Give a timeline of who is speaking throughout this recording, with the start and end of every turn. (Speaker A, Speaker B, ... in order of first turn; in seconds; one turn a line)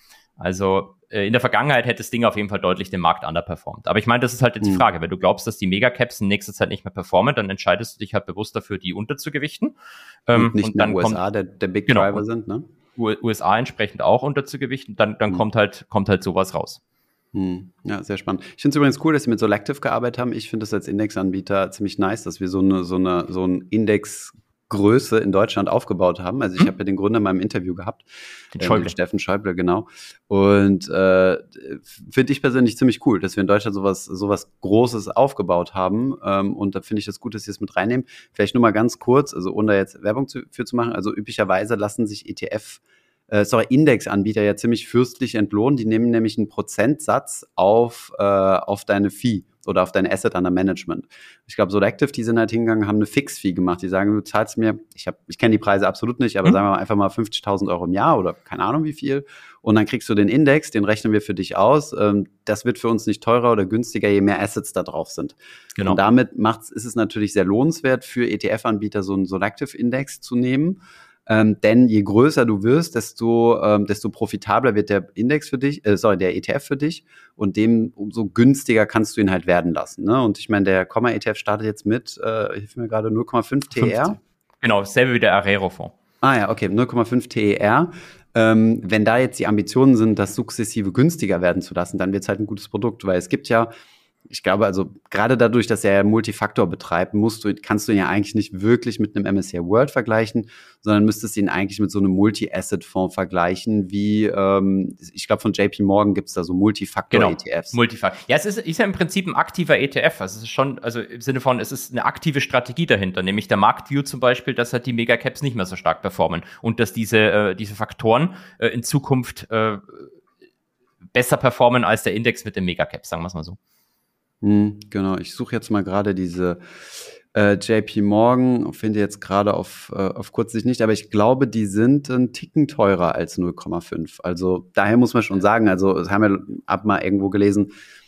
Speaker A: 0.4-9.7
Speaker A: 10.3-11.2
Speaker B: 10.3-12.7
Speaker A: 11.9-12.2
Speaker A: 13.0-16.8
Speaker B: 17.3-84.2
Speaker A: 28.6-28.9
Speaker A: 83.8-85.9
Speaker B: 86.2-93.7
Speaker B: 94.3-107.8
Speaker A: 107.1-120.1
Speaker A: 121.1-123.6
Speaker B: 124.4-126.6
Speaker B: 127.3-137.7